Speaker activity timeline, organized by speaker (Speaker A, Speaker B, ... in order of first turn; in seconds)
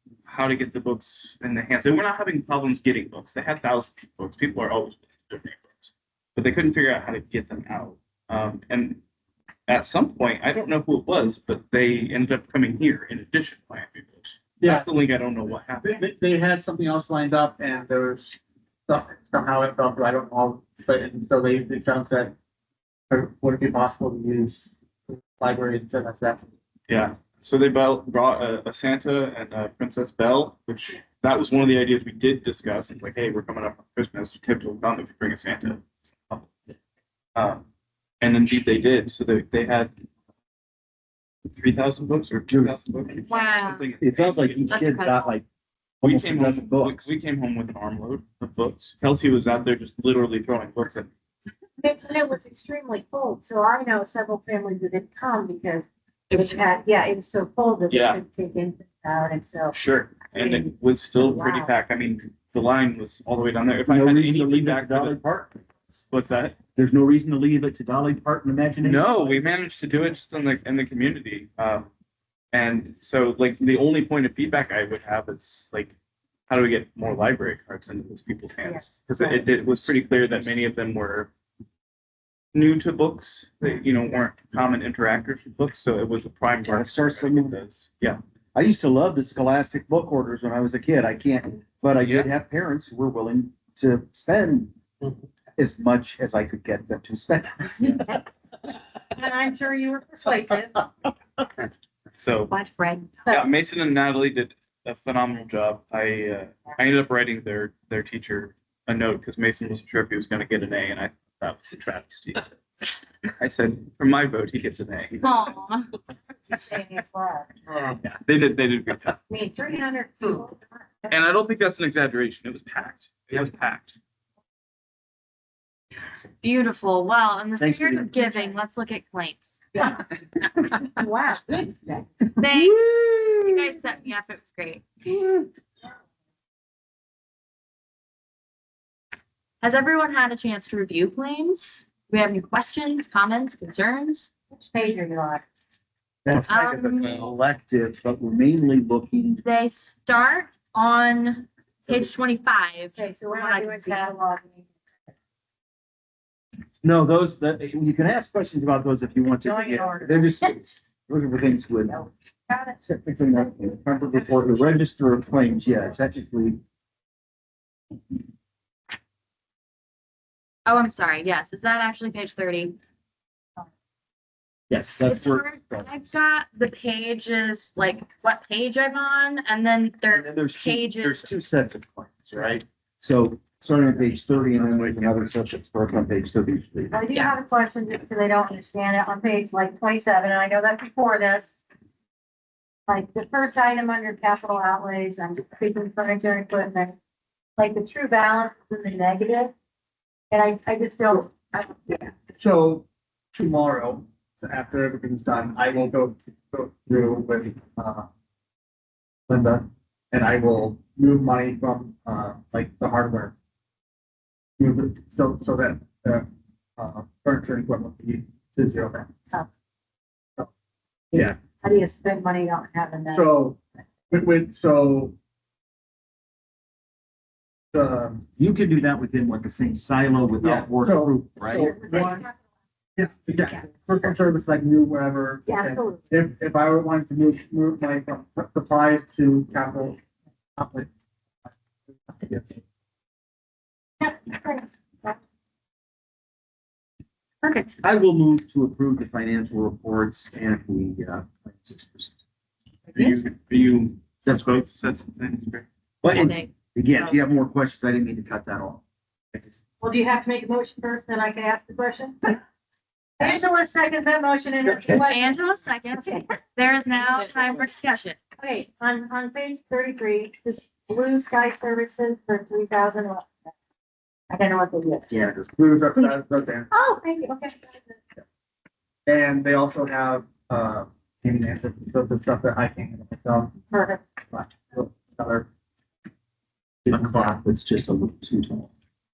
Speaker A: 0.2-9.0, 9.7-16.0, 26.9-36.5, 37.3-37.6, 38.2-39.9, 41.5-44.8, 46.0-51.1, 57.9-58.2, 59.7-65.2, 65.9-66.5, 68.8-71.9, 72.5-75.9, 76.5-81.3, 82.5-88.2, 92.0-92.3, 102.2-102.5, 103.3-112.5, 113.4-115.3, 118.0-119.2, 121.1-124.0, 184.6-185.3, 252.9-255.7
Speaker B: 14.6-14.9, 15.8-22.3, 23.1-24.7, 25.2-26.5, 201.9-208.1, 209.3-213.3, 214.6-216.2, 216.8-219.1, 223.1-223.6, 224.1-225.1, 227.7-228.2, 230.4-232.2, 233.0-240.0, 240.6-240.9, 241.5-242.6, 275.5-276.7, 279.1-283.6, 284.3-285.5, 286.8-287.4
Speaker C: 42.5-42.8, 44.0-45.4, 46.0-47.1, 63.9-65.6, 66.8-69.4, 86.7-87.6, 88.5-94.7, 95.5-98.1, 127.6-128.2, 133.0-133.3, 146.2-149.4, 156.8-161.9, 162.8-166.6, 174.7-176.2, 180.1-186.9, 228.4-231.7, 247.8-252.2, 256.0-258.8, 264.6-265.0, 275.1-275.5, 286.9-288.7
Speaker D: 43.3-43.9, 44.7-45.3, 56.3-56.6, 102.5-103.1, 115.2-115.9, 126.2-129.6, 132.4-134.9, 139.6-144.3, 146.4-147.3, 149.4-154.1, 170.7-172.8, 175.0-181.2, 231.6-232.3, 247.4-247.8, 256.1-256.5, 265.1-268.2
Speaker E: 51.8-59.8, 60.3-61.7, 78.6-79.4, 99.1-100.9, 116.5-117.5, 119.3-121.1, 129.7-130.0, 130.8-132.3, 144.5-145.4, 152.9-154.7, 159.4-160.6, 161.9-162.8, 186.9-191.6, 192.9-196.9, 197.6-199.5, 200.3-202.1, 221.1-223.3, 235.5-236.1, 244.0-245.2, 259.8-262.3, 263.2-267.4, 268.4-273.5, 274.3-275.1, 276.7-278.0, 283.7-284.1